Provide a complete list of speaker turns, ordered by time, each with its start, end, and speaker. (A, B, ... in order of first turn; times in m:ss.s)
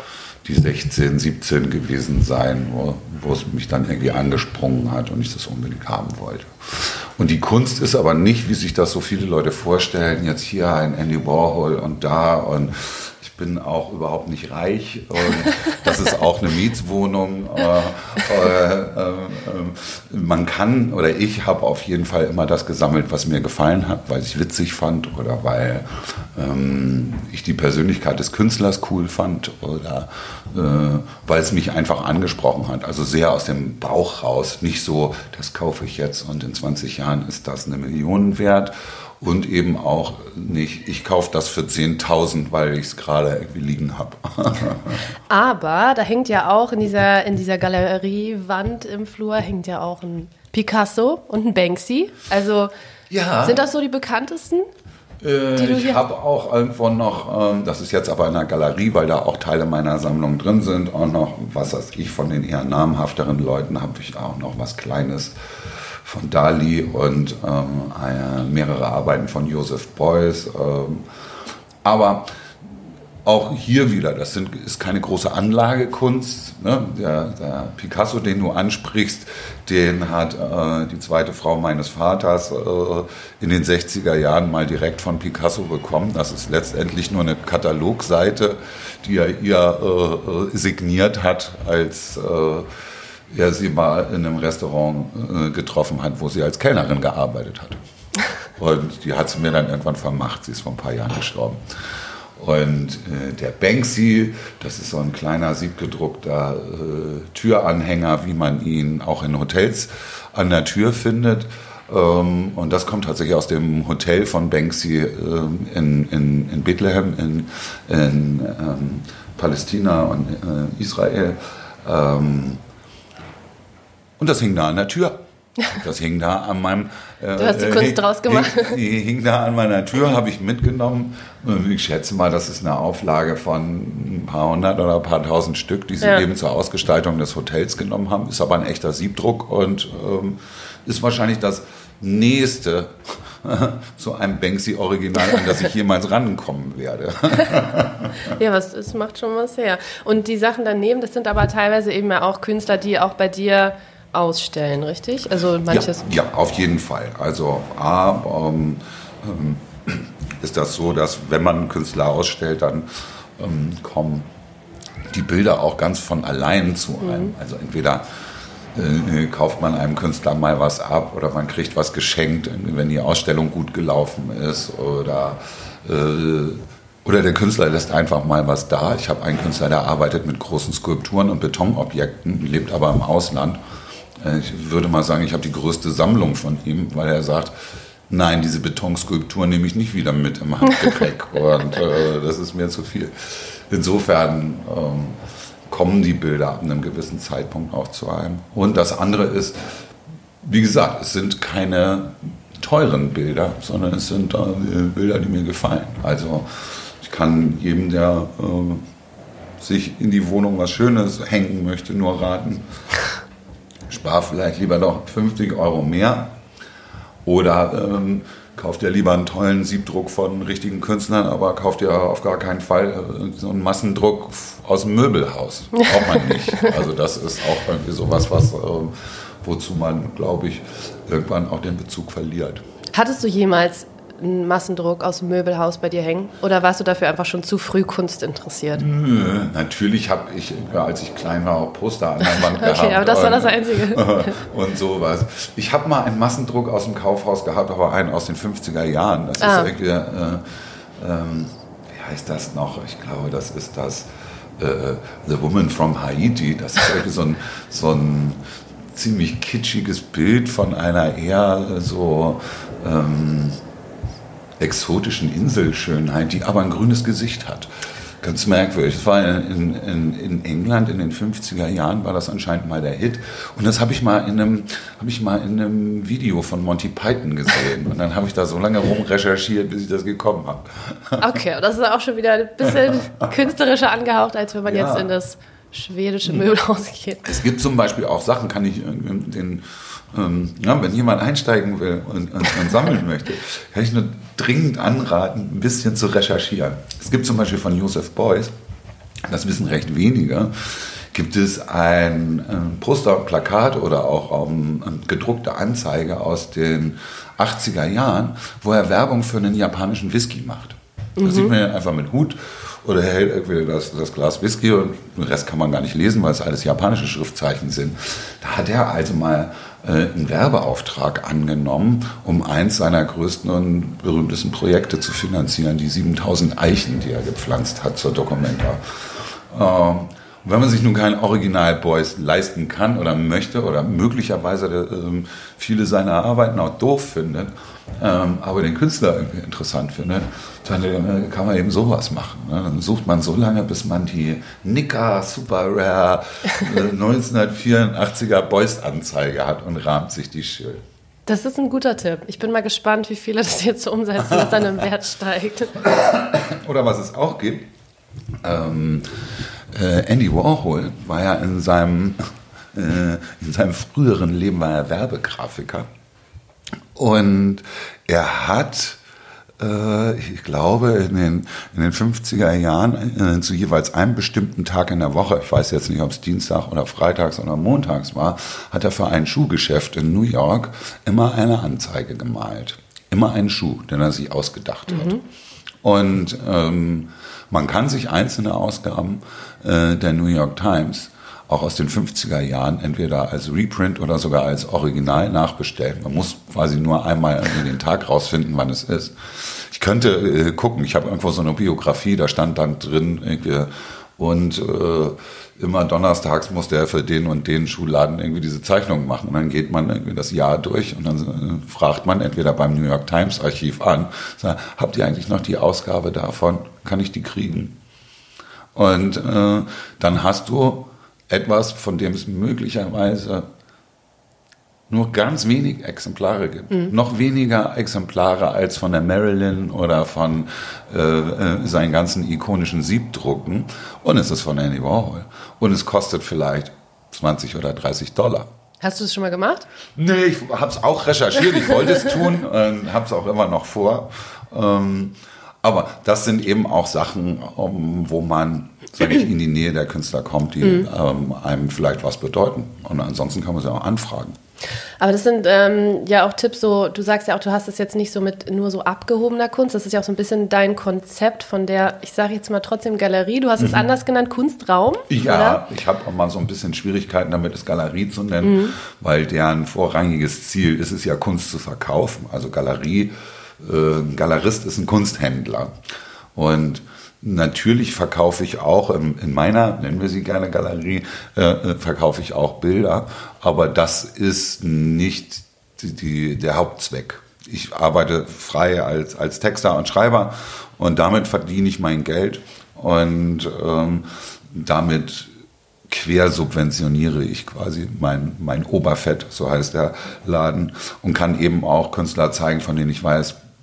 0:00.4-0:45.1 A
0:45.3-0:52.7 B
0:53.1-0:53.6 A
0:53.4-0:54.7 B
0:55.2-1:11.1 A
0:55.6-0:56.0 B
1:11.8-1:12.7 A
1:13.2-1:32.7 A
1:33.3-1:37.8 A
1:38.6-1:41.6 A
1:42.4-2:02.6 A
2:04.2-2:28.3 A
2:07.4-2:08.8 B
2:28.3-2:36.0 B
2:35.7-2:44.3 A
2:45.1-2:48.0 A
2:48.7-3:03.6 A
3:04.2-3:07.5 A
3:08.1-3:19.8 A
3:20.4-3:28.8 A
3:29.6-3:32.6 A
3:33.9-3:36.3 A
3:37.2-3:52.6 A
3:52.9-3:58.8 B
3:58.7-4:18.4 A
4:02.2-4:04.4 B
4:09.4-4:09.7 B
4:18.9-4:23.6 A
4:24.6-4:41.4 A
4:41.2-4:47.3 B
4:42.7-4:43.2 A
4:44.6-4:45.1 A
4:47.2-4:58.5 A
4:59.2-5:50.8 A
5:11.2-5:11.5 B
5:51.2-5:55.8 B
5:55.8-5:57.7 A
5:58.4-6:02.2 A
6:02.7-6:05.9 A
6:06.9-6:09.0 A
6:09.6-6:25.2 A
6:24.9-6:25.2 B
6:25.8-6:57.7 A
6:58.7-7:03.5 A
7:04.9-7:18.5 A
7:18.8-7:19.7 B
7:20.0-7:34.4 A
7:35.0-7:45.6 B
7:43.6-7:43.9 A
7:45.1-7:55.7 A
7:48.4-7:48.7 B
7:56.3-8:15.3 A
8:15.9-8:23.4 A